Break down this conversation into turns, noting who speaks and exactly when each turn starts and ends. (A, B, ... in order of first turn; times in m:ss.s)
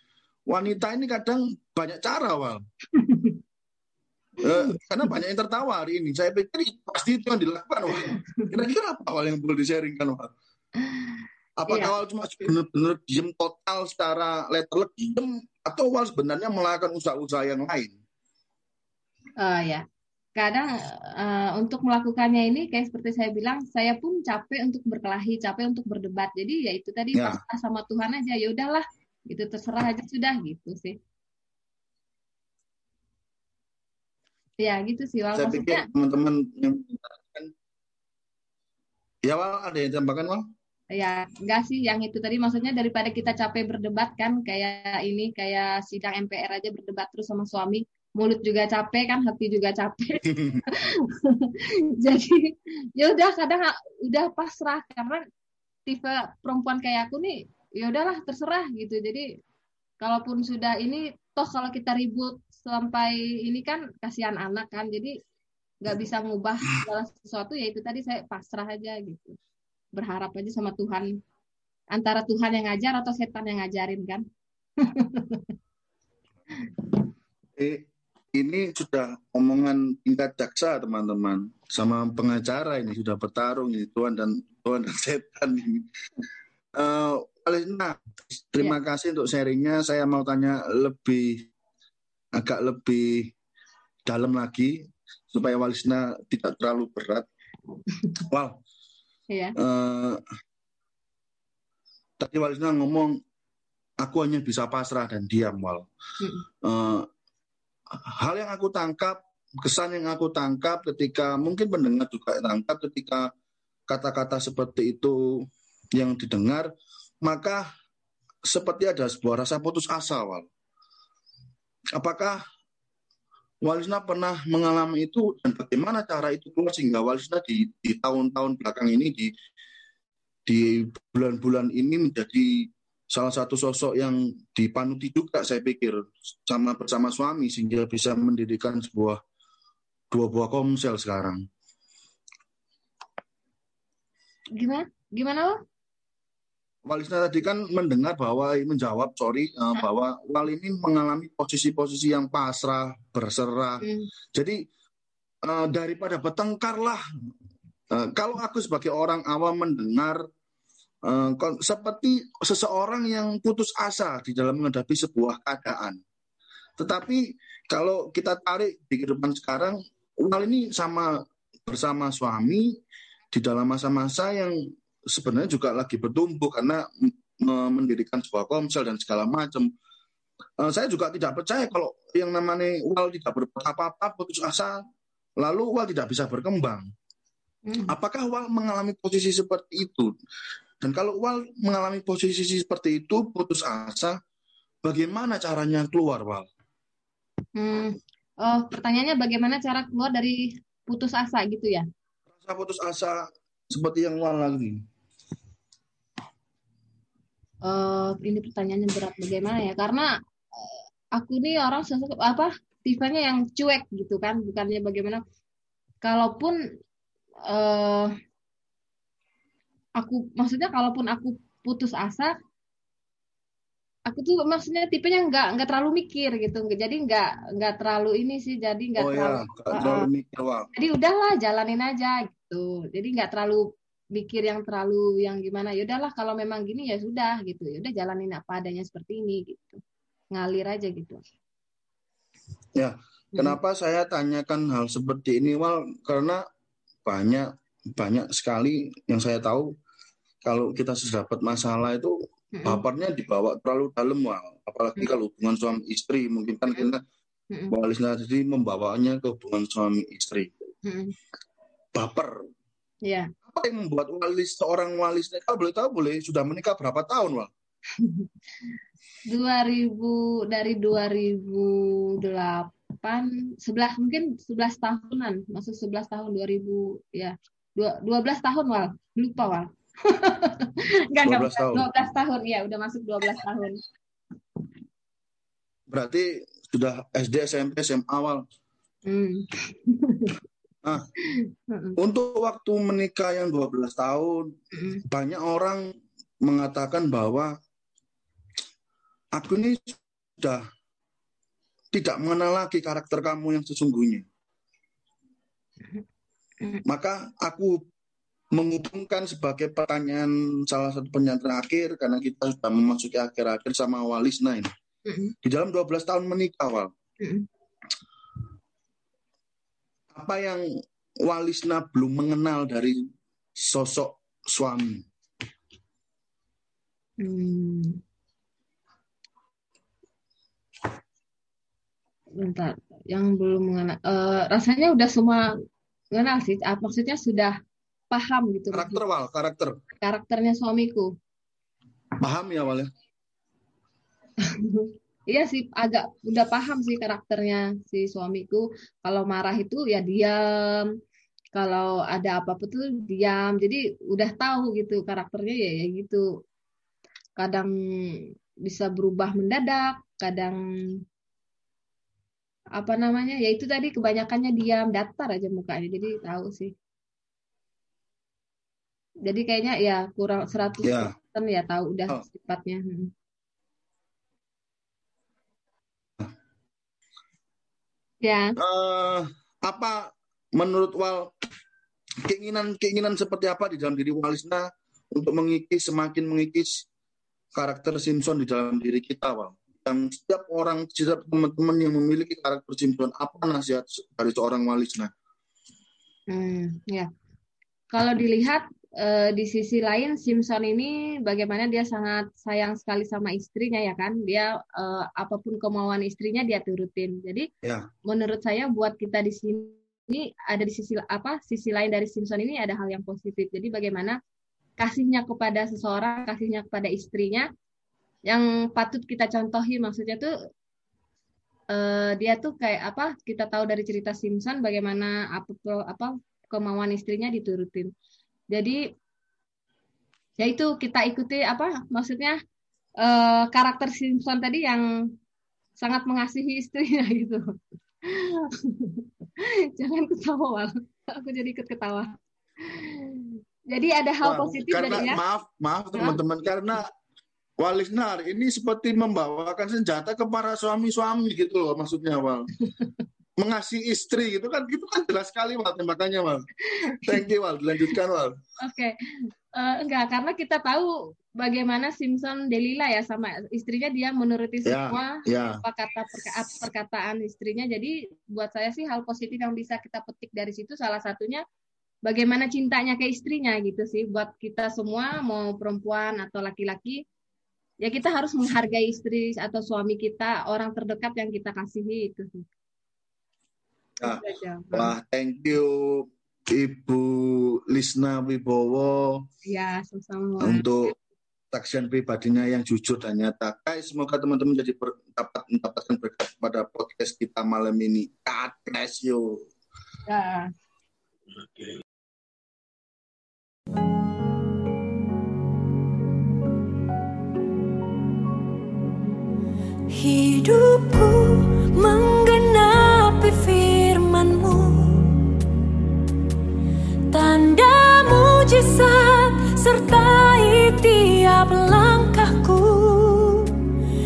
0:00.5-0:02.6 A
0:02.9-0:03.4 B
0:04.4-0:10.3 A
0:08.0-0:08.5 B
0:10.8-0:11.2 B
0:11.6-0:17.9 A
0:19.4-0:19.8 B
0:20.4-0:31.0 B
0:27.1-0:27.4 A
0:34.6-0:35.9 B
0:35.3-0:37.5 A
0:39.2-0:40.4 A
0:40.9-0:55.2 B
0:50.3-0:50.6 A
0:55.9-0:59.2 B
1:00.0-1:05.1 B
1:05.8-1:09.4 B
1:09.9-1:11.1 B
1:11.9-1:14.2 B
1:14.8-1:15.5 B
1:17.6-1:25.8 A
1:26.7-1:31.5 A
1:32.3-1:33.3 A
1:34.0-1:34.8 A
1:35.3-1:37.3 A
1:38.3-1:38.6 A
1:39.3-1:39.6 B
1:39.6-1:40.2 A
1:42.2-1:43.2 A
1:44.0-1:45.9 A
1:46.2-1:46.4 B
1:46.6-1:47.1 A
1:48.0-1:53.3 A
1:53.9-1:56.7 A
1:57.2-1:57.6 A
1:58.4-2:00.5 A
2:01.9-2:02.4 A
2:03.6-2:09.3 A
2:10.4-2:19.2 A
2:20.1-2:21.4 A
2:24.6-2:25.6 B
2:26.8-2:34.6 A
2:33.8-2:34.1 B
2:35.4-2:37.0 A
2:37.9-2:40.2 A
2:41.0-2:46.0 A
2:46.8-2:52.8 A
2:53.3-2:54.6 A
2:55.1-2:59.7 A
3:00.6-3:04.8 A
3:05.4-3:06.9 A
3:07.6-3:07.9 B
3:07.9-3:10.1 A
3:10.8-3:14.2 A
3:14.8-3:16.5 A
3:17.6-3:21.8 B
3:22.4-3:24.8 A
3:27.6-3:35.2 B
3:36.0-3:36.6 B
3:37.5-3:38.1 B
3:40.0-3:42.3 B
3:44.1-3:50.1 B
3:49.0-3:50.7 A
3:50.7-3:59.8 B
4:00.3-4:01.2 B
4:02.7-4:06.4 A
4:07.0-4:09.7 A
4:10.4-4:17.0 A
4:12.5-4:12.8 B
4:17.7-4:20.5 A
4:20.8-4:21.1 B
4:21.9-4:22.3 A
4:23.0-4:23.3 B
4:23.5-4:27.5 A
4:28.0-4:28.3 B
4:29.3-4:43.8 B
4:41.2-4:41.9 A
4:45.9-4:48.4 A
4:49.0-4:50.4 B
4:51.2-4:52.0 B
4:52.0-4:54.5 A
4:54.7-4:55.0 B
4:55.0-4:55.8 A
4:56.4-4:57.6 A
4:59.3-5:00.7 A
5:01.9-5:04.2 A
5:06.8-5:07.8 A
5:08.5-5:14.7 A
5:15.0-5:15.3 B
5:15.4-5:16.9 A
5:20.1-5:20.6 A
5:21.2-5:23.0 A
5:23.6-5:25.0 A
5:27.2-5:28.0 B
5:32.4-5:35.5 B
5:36.1-5:37.6 B
5:38.1-5:39.0 B
5:38.7-5:39.7 A
5:40.0-5:41.1 B
5:42.2-5:42.9 A
5:44.4-5:50.9 B
5:51.5-5:56.2 B
5:57.4-6:00.6 B
6:02.8-6:06.7 B
6:09.2-6:13.1 B
6:10.8-6:11.1 A
6:18.2-6:18.6 B
6:18.6-6:21.3 A
6:22.2-6:26.8 A
6:27.5-6:35.1 A
6:36.3-6:37.1 B
6:37.9-6:47.5 B
6:48.1-6:54.2 B
6:54.8-6:57.5 B
6:58.3-7:00.3 B
7:01.7-7:07.9 B
7:08.5-7:08.8 B
7:10.4-7:12.4 B
7:13.0-7:14.8 B
7:15.8-7:17.4 B
7:18.1-7:25.2 B
7:24.2-7:26.9 A
7:27.6-7:32.5 A
7:33.4-7:38.4 A
7:36.7-7:37.3 B
7:38.6-7:39.0 B
7:39.5-7:51.4 B
7:44.6-7:45.6 A
7:52.0-7:57.0 B
7:57.8-8:02.4 B
8:04.0-8:09.2 A
8:04.0-8:04.9 B
8:09.4-8:10.6 B
8:10.4-8:10.9 A
8:11.5-8:19.4 A
8:20.1-8:20.5 B
8:29.9-8:35.3 C
8:37.1-8:43.6 C